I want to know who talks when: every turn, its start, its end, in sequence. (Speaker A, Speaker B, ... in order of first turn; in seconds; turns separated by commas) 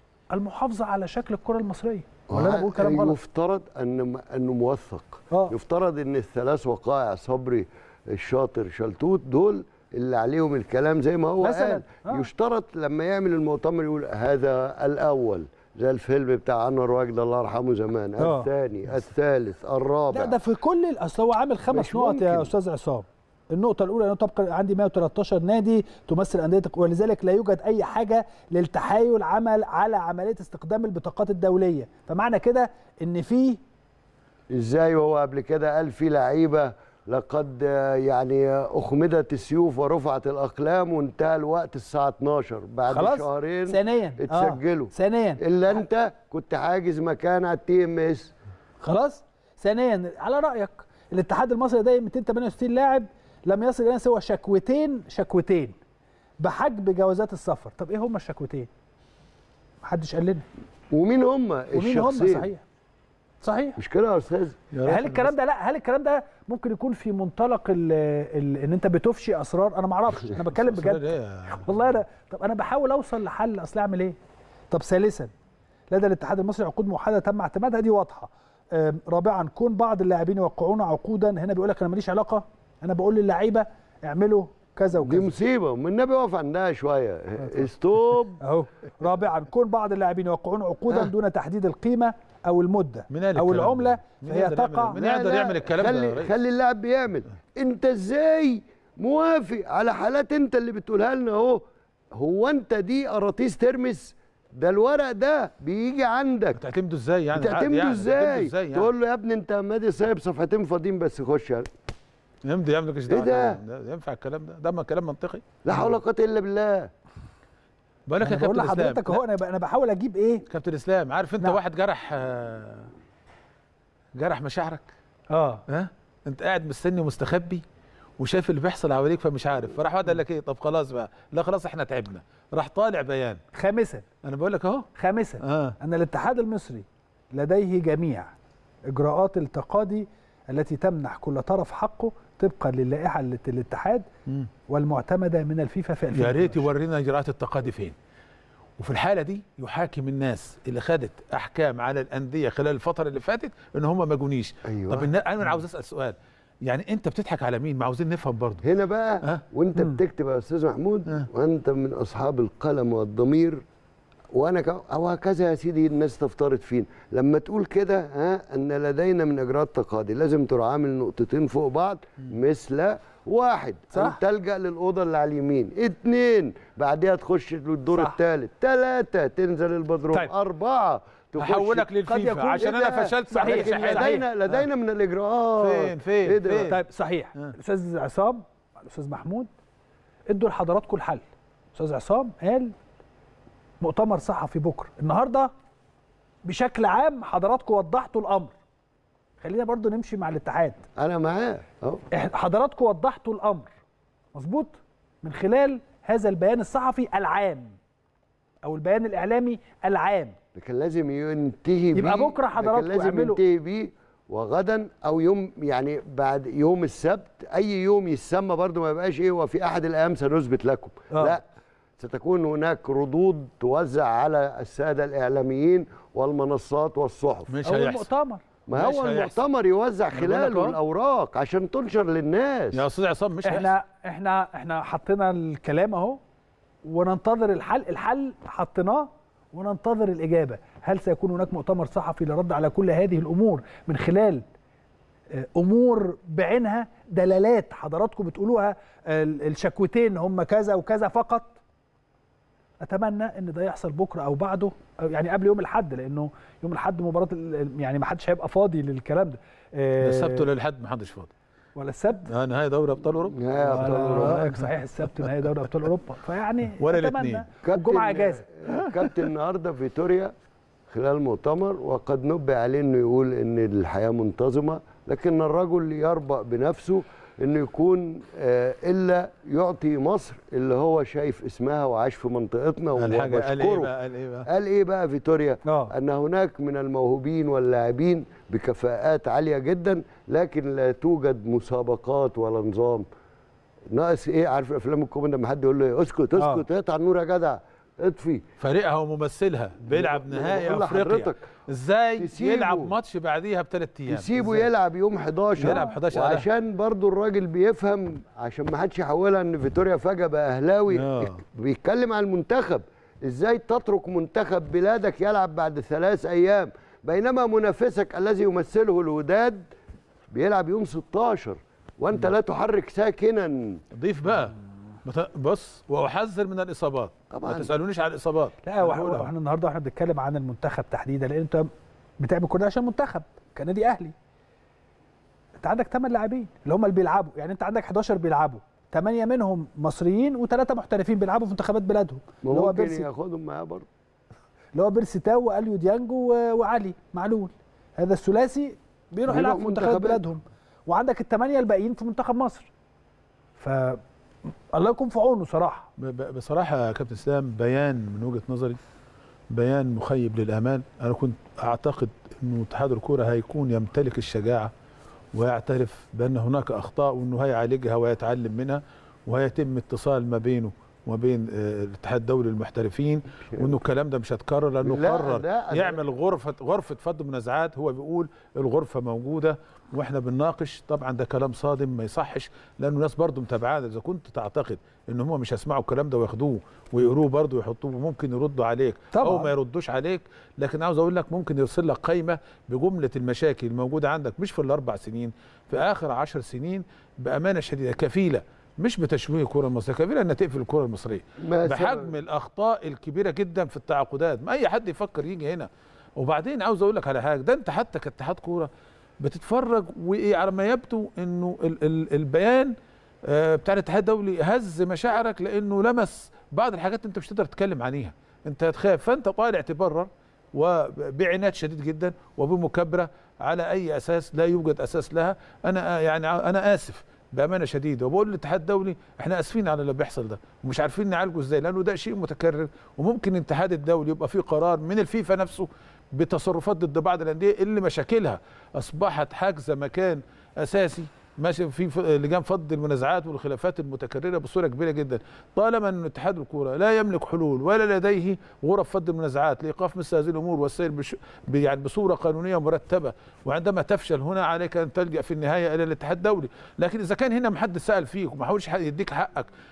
Speaker A: 0.3-3.2, Speaker B: 2.3-20.4, Speaker A: 11.4-12.3, Speaker A: 18.2-18.5, Speaker A: 20.1-33.6, Speaker B: 21.7-22.5, Speaker B: 34.5-48.3, Speaker A: 42.9-45.4, Speaker A: 48.8-55.8, Speaker A: 56.4-58.7, Speaker A: 59.8-60.5, Speaker B: 60.9-62.5, Speaker A: 61.7-62.6, Speaker A: 63.4-63.8, Speaker B: 63.8-64.6, Speaker C: 64.7-65.3, Speaker A: 64.8-74.2, Speaker C: 70.5-71.7, Speaker A: 74.7-75.3, Speaker A: 75.9-85.3, Speaker B: 85.0-88.4, Speaker A: 88.4-95.0, Speaker C: 93.1-96.3, Speaker B: 94.9-101.6, Speaker B: 102.2-106.6, Speaker C: 106.5-108.9, Speaker B: 107.3-111.7, Speaker C: 112.5-116.0, Speaker B: 113.1-113.6, Speaker B: 115.6-116.9, Speaker C: 118.1-119.2, Speaker A: 118.2-120.4, Speaker C: 120.5-122.9, Speaker C: 124.2-124.8, Speaker A: 125.3-125.6, Speaker C: 125.7-127.6, Speaker C: 128.2-133.4, Speaker A: 133.5-134.1, Speaker C: 134.2-134.9, Speaker A: 135.0-138.3, Speaker C: 135.4-135.8, Speaker A: 138.9-144.1, Speaker A: 144.7-146.7, Speaker C: 146.1-147.9, Speaker C: 148.8-158.7, Speaker B: 154.7-155.1, Speaker B: 158.6-163.6, Speaker C: 159.2-160.0, Speaker B: 164.3-181.9, Speaker C: 181.4-184.7, Speaker A: 182.0-184.2, Speaker B: 182.6-186.7, Speaker C: 185.6-186.8, Speaker A: 186.7-189.5, Speaker A: 190.3-191.2, Speaker A: 191.8-192.7, Speaker A: 193.8-195.5, Speaker A: 196.4-198.5, Speaker A: 199.4-200.9, Speaker B: 201.0-202.0, Speaker A: 202.1-203.7, Speaker A: 204.3-207.8, Speaker A: 208.6-210.4, Speaker B: 210.6-221.4, Speaker A: 211.9-213.4, Speaker A: 221.1-221.4, Speaker B: 222.0-227.5, Speaker C: 227.5-228.1, Speaker A: 227.6-228.4, Speaker B: 228.7-232.8, Speaker C: 228.7-229.4, Speaker C: 230.1-230.8, Speaker C: 232.7-233.7, Speaker A: 233.4-236.2, Speaker A: 236.8-244.4, Speaker A: 245.3-251.6, Speaker A: 252.8-260.5, Speaker C: 260.0-261.3, Speaker A: 261.8-262.3, Speaker C: 262.2-264.6, Speaker B: 263.4-264.4, Speaker A: 263.7-268.4, Speaker C: 266.8-267.5, Speaker B: 267.6-270.3, Speaker C: 268.8-269.2, Speaker B: 270.9-283.9, Speaker C: 283.0-284.5, Speaker B: 284.5-293.1, Speaker A: 285.6-285.9, Speaker B: 293.9-298.4, Speaker A: 296.4-296.6, Speaker C: 298.6-304.7, Speaker B: 299.9-301.4, Speaker B: 302.2-302.9, Speaker B: 304.1-319.6, Speaker C: 305.6-306.5, Speaker A: 305.6-305.9, Speaker C: 310.9-311.4, Speaker B: 320.3-323.8, Speaker C: 323.9-329.3, Speaker B: 327.3-327.7, Speaker A: 328.6-331.7, Speaker A: 332.2-334.1, Speaker A: 335.6-343.1, Speaker B: 342.4-343.9, Speaker A: 344.8-352.7, Speaker B: 349.3-350.2, Speaker A: 353.6-354.0, Speaker A: 354.7-355.9, Speaker C: 356.0-358.8, Speaker C: 359.5-364.7, Speaker C: 365.3-412.8, Speaker B: 374.9-376.0, Speaker A: 389.1-389.5, Speaker B: 401.4-402.1, Speaker C: 413.3-459.5